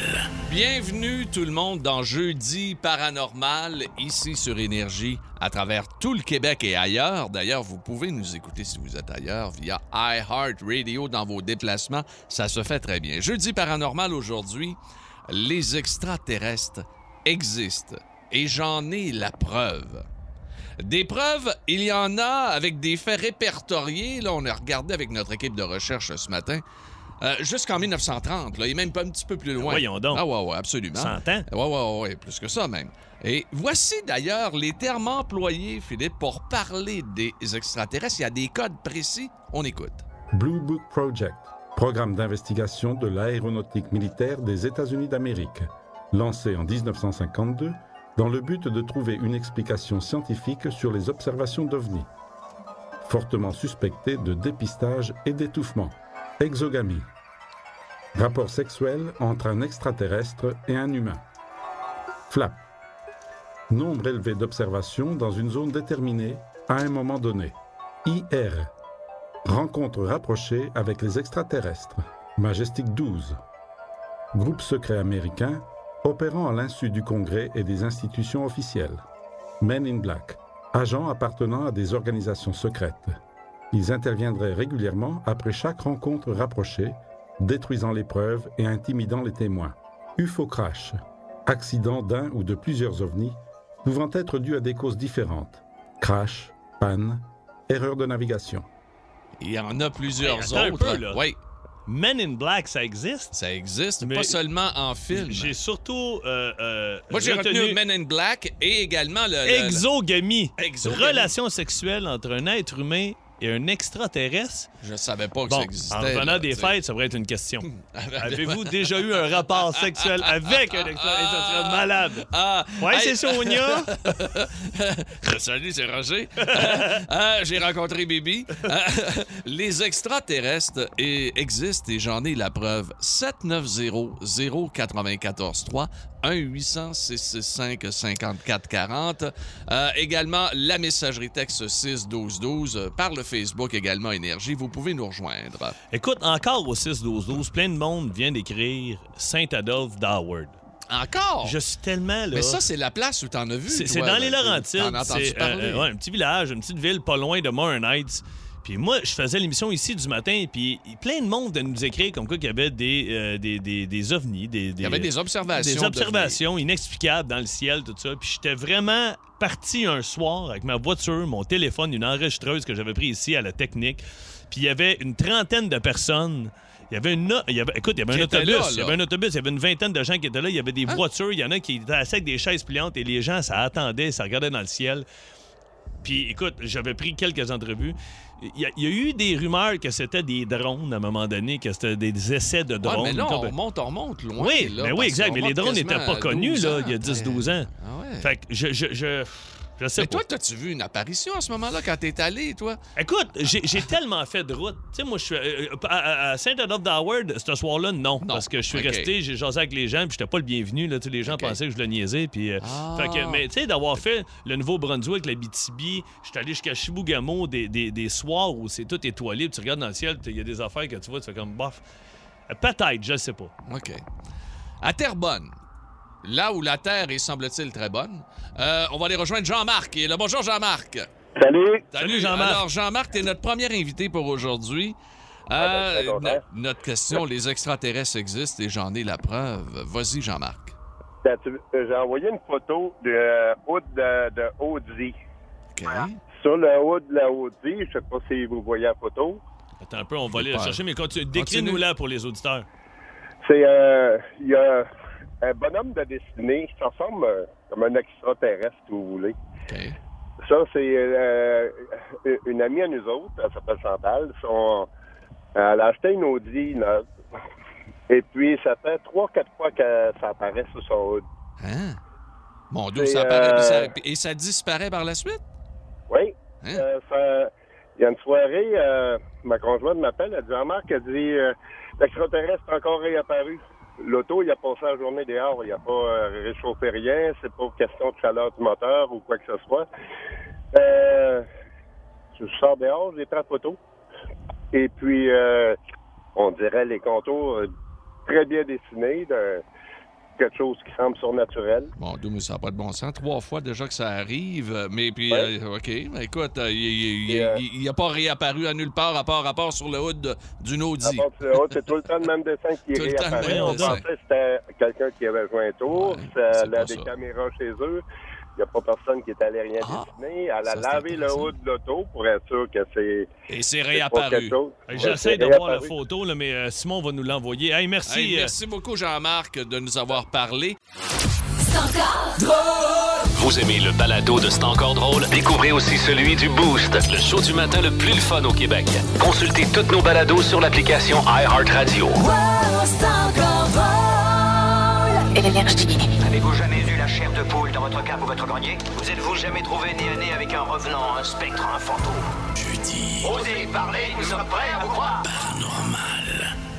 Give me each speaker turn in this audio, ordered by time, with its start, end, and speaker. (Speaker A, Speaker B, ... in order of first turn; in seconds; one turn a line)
Speaker A: 0.4-20.1
Speaker A: 20.8-26.6
Speaker A: 27.2-40.0
Speaker B: 29.6-30.2
Speaker B: 30.9-31.5
Speaker C: 40.3-52.1
Speaker C: 53.0-57.1
Speaker C: 58.1-61.2
Speaker C: 62.3-62.6
Speaker C: 63.7-68.7
Speaker C: 69.5-73.4
Speaker C: 74.3-79.0
Speaker C: 79.6-83.2
Speaker C: 83.7-98.7
Speaker A: 99.4-101.4
Speaker B: 100.2-101.2
Speaker B: 101.9-103.4
Speaker A: 103.3-105.5
Speaker B: 104.0-104.4
Speaker B: 105.1-107.8
Speaker A: 107.1-109.8
Speaker B: 109.5-114.7
Speaker A: 110.6-111.3
Speaker A: 114.8-116.8
Speaker B: 115.5-124.0
Speaker A: 117.7-145.8
Speaker B: 126.5-127.0
Speaker B: 145.9-150.6
Speaker A: 150.9-151.6
Speaker B: 151.4-152.6
Speaker A: 152.3-155.9
Speaker B: 153.7-185.1
Speaker A: 164.8-166.4
Speaker A: 178.1-179.0
Speaker B: 186.0-193.6
Speaker A: 192.8-198.3
Speaker B: 194.4-197.7
Speaker B: 198.2-200.2
Speaker A: 200.0-202.8
Speaker B: 203.0-221.8
Speaker A: 208.2-209.1
Speaker A: 211.2-211.6
Speaker A: 212.6-213.4
Speaker B: 222.5-223.5
Speaker A: 223.7-224.0
Speaker A: 224.8-225.5
Speaker A: 226.2-231.1
Speaker D: 231.4-231.8
Speaker A: 231.9-240.8
Speaker B: 232.0-232.6
Speaker D: 235.6-236.4
Speaker D: 241.2-245.2
Speaker A: 245.8-246.2
Speaker D: 246.3-249.4
Speaker B: 249.8-252.7
Speaker A: 250.3-250.8
Speaker A: 251.3-251.8
Speaker D: 253.4-254.9
Speaker D: 255.4-259.4
Speaker A: 259.7-260.0
Speaker D: 260.4-264.9
Speaker D: 265.6-267.1
Speaker D: 268.1-271.2
Speaker A: 271.6-272.0
Speaker A: 272.7-275.4
Speaker D: 272.9-273.9
Speaker D: 276.1-289.9
Speaker D: 290.7-291.5
Speaker D: 292.4-293.8
Speaker D: 294.7-295.8
Speaker D: 296.4-297.7
Speaker D: 298.3-299.6
Speaker D: 300.4-301.9
Speaker A: 302.0-311.3
Speaker D: 307.3-307.6
Speaker D: 311.0-318.0
Speaker A: 312.9-314.1
Speaker B: 313.4-314.0
Speaker A: 315.9-317.1
Speaker D: 318.6-323.3
Speaker A: 319.8-320.1
Speaker A: 320.6-321.5
Speaker A: 323.5-325.2
Speaker D: 323.9-325.9
Speaker B: 324.9-328.5
Speaker A: 328.1-330.8
Speaker E: 331.6-333.1
Speaker F: 333.3-342.2
Speaker E: 342.2-346.0
Speaker G: 346.2-352.4
Speaker G: 353.2-355.4
Speaker A: 355.5-356.4